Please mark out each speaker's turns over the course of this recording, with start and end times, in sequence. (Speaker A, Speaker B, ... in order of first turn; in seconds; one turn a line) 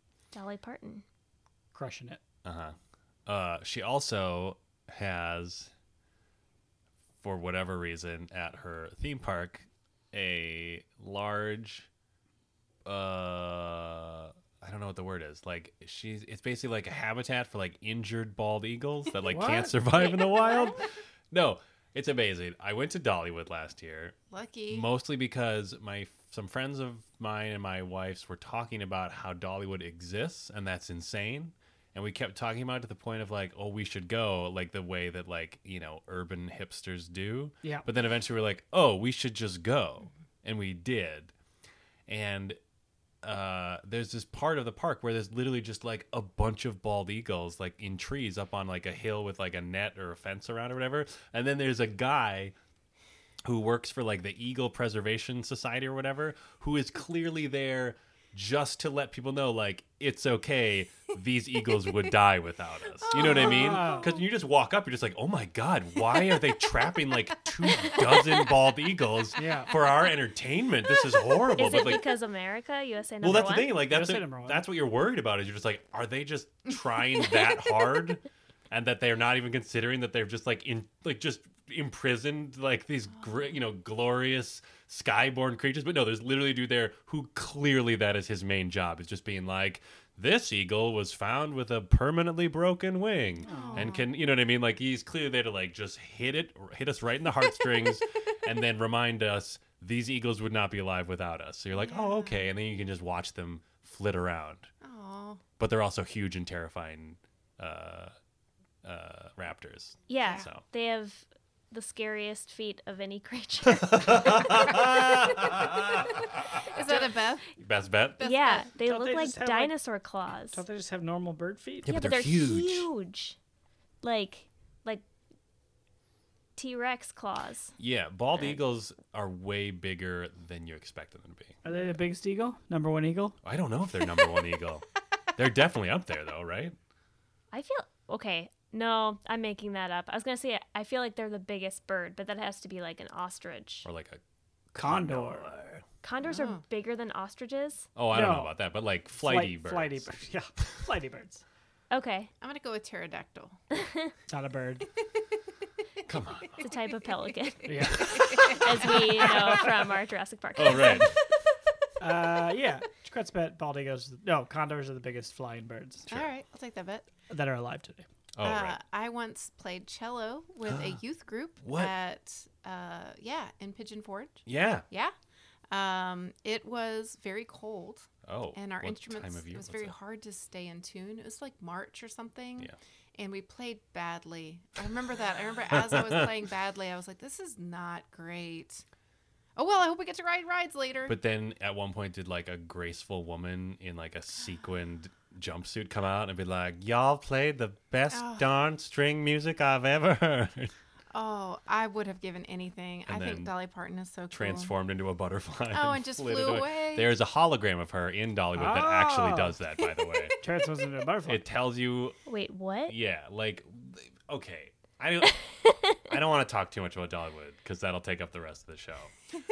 Speaker A: 0.3-1.0
Speaker B: 1.7-2.2
Speaker C: 2.4-5.7
Speaker C: 7.2-11.9
Speaker C: 12.8-24.1
Speaker B: 19.3-19.8
Speaker A: 20.0-20.7
Speaker D: 24.3-24.9
Speaker C: 24.7-41.3
Speaker C: 42.1-42.6
Speaker C: 43.2-52.5
Speaker C: 53.4-72.0
Speaker D: 63.0-64.2
Speaker B: 63.2-64.2
Speaker D: 67.7-68.5
Speaker B: 69.4-69.7
Speaker A: 71.5-73.8
Speaker C: 73.2-104.7
Speaker B: 73.8-74.6
Speaker B: 93.4-93.9
Speaker D: 93.5-94.1
Speaker D: 101.7-102.5
Speaker D: 104.8-105.4
Speaker C: 105.6-108.1
Speaker C: 108.8-110.6
Speaker A: 110.1-114.8
Speaker C: 113.8-116.9
Speaker D: 116.6-117.5
Speaker C: 117.6-118.2
Speaker D: 118.2-118.7
Speaker A: 118.2-120.6
Speaker B: 118.8-119.7
Speaker B: 120.5-121.9
Speaker C: 121.8-122.9
Speaker A: 121.9-123.4
Speaker A: 124.0-125.0
Speaker A: 126.6-127.7
Speaker C: 127.8-131.6
Speaker B: 131.6-133.4
Speaker C: 133.4-136.7
Speaker A: 137.5-143.8
Speaker C: 143.8-144.2
Speaker C: 144.7-145.8
Speaker B: 144.8-145.5
Speaker A: 146.0-147.9
Speaker D: 146.2-146.6
Speaker C: 147.9-150.2
Speaker B: 148.1-148.6
Speaker B: 149.2-151.4
Speaker A: 151.9-152.3
Speaker D: 152.4-153.6
Speaker A: 153.7-154.1
Speaker B: 154.3-154.9
Speaker C: 156.1-156.6
Speaker A: 156.6-161.1
Speaker D: 156.6-157.1
Speaker B: 157.7-158.2
Speaker D: 157.8-159.6
Speaker C: 158.0-158.9
Speaker C: 160.6-161.2
Speaker B: 162.0-166.1
Speaker D: 166.1-167.1
Speaker B: 167.3-168.1
Speaker C: 168.3-168.8
Speaker D: 168.4-175.1
Speaker C: 170.7-171.0
Speaker C: 171.6-171.9
Speaker C: 174.4-174.8
Speaker D: 175.7-188.8
Speaker C: 178.3-179.9
Speaker C: 185.7-186.3
Speaker D: 189.6-191.2
Speaker C: 191.1-200.7
Speaker D: 198.1-198.5
Speaker D: 201.1-204.7
Speaker C: 203.1-203.5
Speaker C: 204.3-210.4
Speaker D: 205.7-207.1
Speaker B: 208.5-209.6
Speaker B: 210.4-211.4
Speaker C: 211.2-212.2
Speaker A: 212.3-212.9
Speaker C: 212.8-215.4
Speaker A: 215.7-216.0
Speaker C: 216.0-219.1